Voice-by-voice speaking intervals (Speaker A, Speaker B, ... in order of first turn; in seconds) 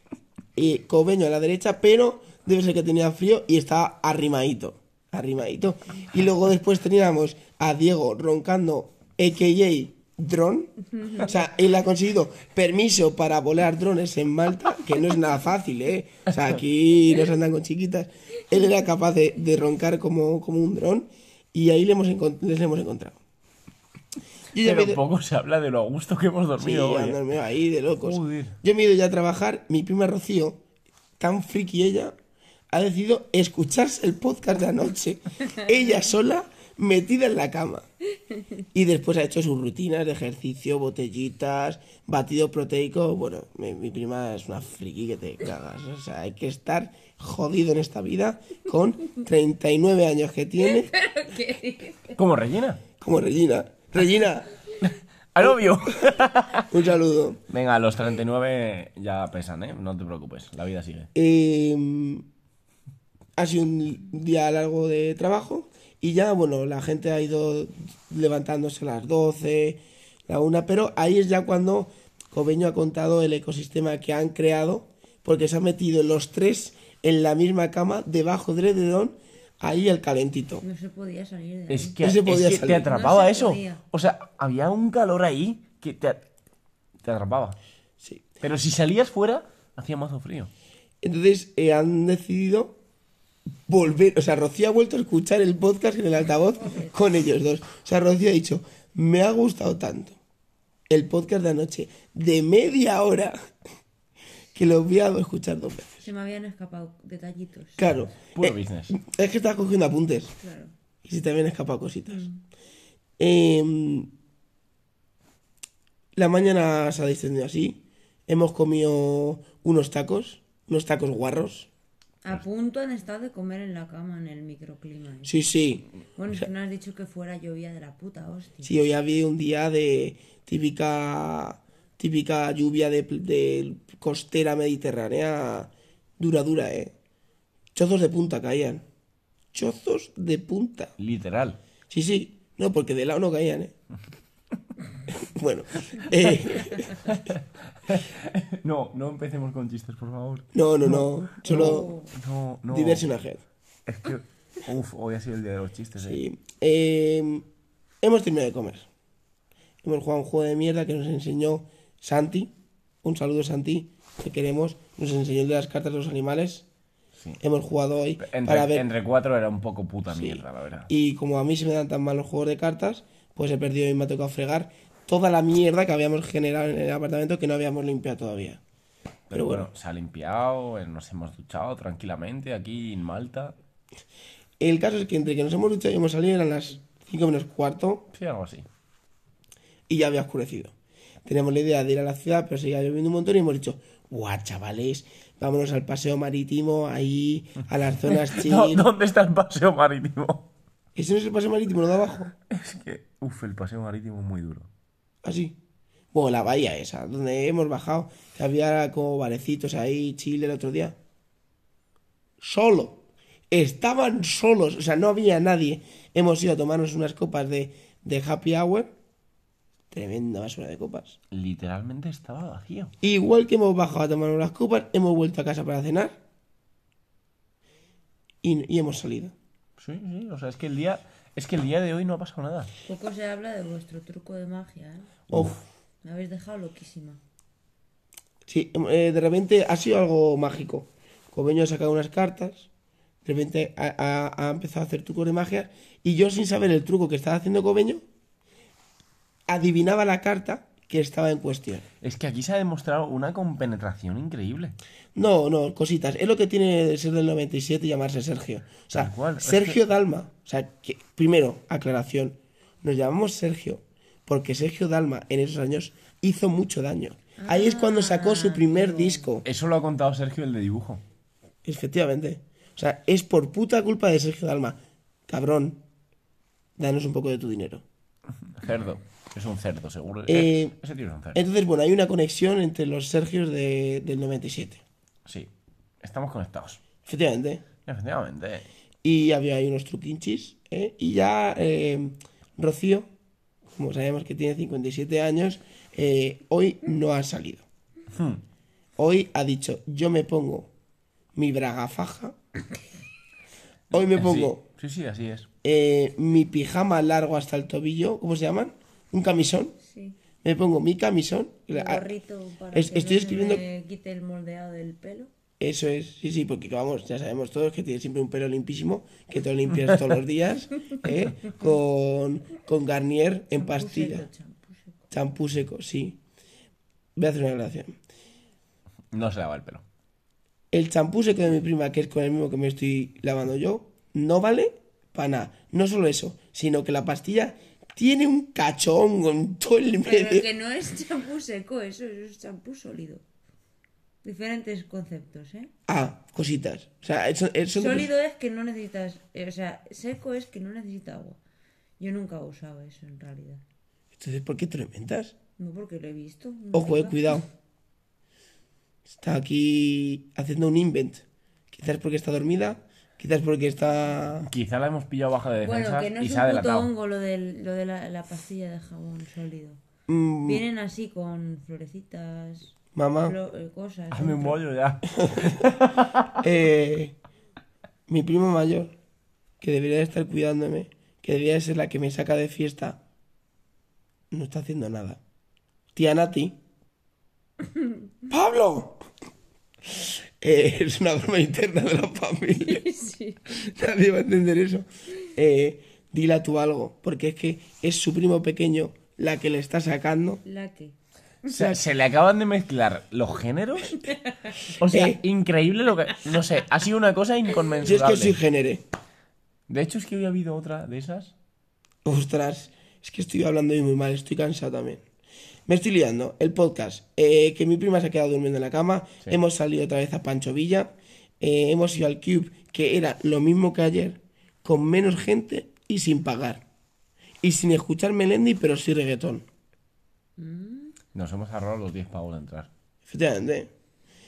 Speaker A: 0.6-23.2, 24.5-25.0, 26.6-30.6, 31.2-32.1, 32.7-37.9, 38.7-50.9, 53.0-54.5, 56.7-57.4, 61.1-62.2, 63.4-80.6, 82.0-82.9, 91.0-92.8, 93.7-100.2, 100.9-103.3, 104.5-106.1, 107.8-110.3, 111.0-112.3, 113.2-114.1, 116.1-121.7, 125.2-126.5, 128.6-136.9, 137.7-138.8, 139.5-140.9, 141.9-143.7, 145.1-147.2, 150.5-151.9, 152.7-153.4, 156.0-157.4, 158.0-158.9, 159.8-162.5, 163.0-166.7, 167.4-168.8, 170.1-178.6, 179.3-179.7, 184.6-188.1, 189.9-190.7, 191.2-198.9, 200.9-202.3, 205.2-205.6, 206.1-210.9, 212.4-218.9, 219.9-221.2, 223.0-226.2, 228.4-229.3, 235.3-235.6, 238.5-242.7, 243.2-248.0, 249.5-251.8, 255.1-269.4, 271.6-275.8, 276.8-277.8, 280.3-280.7, 281.3-284.8, 287.0-287.6, 289.0-293.1, 293.8-297.6, 299.0-300.7, 301.3-302.3, 303.9-304.6, 305.6-309.7, 310.4-312.1, 312.7-313.6, 315.6-324.3, 325.1-326.2, 327.1-327.9, 330.7-340.4, 345.9-348.1, 354.1-355.3, 356.7-357.4, 359.1-364.5, 370.1-370.6, 372.9-373.4, 376.4-377.1, 378.1-378.9, 379.6-383.0, 384.3-385.2, 385.9-386.6, 388.3-389.0, 390.4-392.9, 393.5-400.4, 401.5-401.8, 404.9-405.2, 407.8-408.8, 412.0-415.0, 415.7-426.6, 427.4-429.4, 433.1-433.7
Speaker B: 24.6-27.2, 28.0-28.5, 52.1-52.8, 54.8-56.7, 57.5-61.1, 81.7-86.2, 87.0-87.6, 88.4-90.5, 108.1-108.9, 141.0-141.6, 146.5-153.1, 153.9-156.2, 168.2-170.9, 179.3-183.5, 188.1-188.6, 198.0-200.5, 202.5-204.7, 221.3-222.9, 229.8-232.7, 235.3-235.6, 252.0-254.8, 258.9-259.8, 269.4-271.0, 278.5-281.4, 285.2-285.5, 286.0-286.8, 287.9-288.7, 298.1-298.4, 303.9-305.5, 329.1-329.8, 364.4-366.9, 374.1-376.3, 401.5-404.1, 404.7-408.4, 409.7-411.3, 431.1-432.7
Speaker C: 50.6-52.2, 80.6-82.0, 82.8-83.8, 96.4-97.0, 106.0-107.8, 110.4-110.7, 112.1-112.4, 122.2-125.3, 126.2-128.8, 151.5-152.1, 232.8-235.3, 236.0-237.2, 267.4-269.4, 309.8-310.2, 311.7-315.3, 323.5-325.0, 340.0-343.2, 344.2-345.7, 347.7-351.4, 352.0-353.6, 355.6-357.4, 365.6-369.8, 370.4-374.6, 392.6-393.5, 400.4-400.9, 430.4-431.0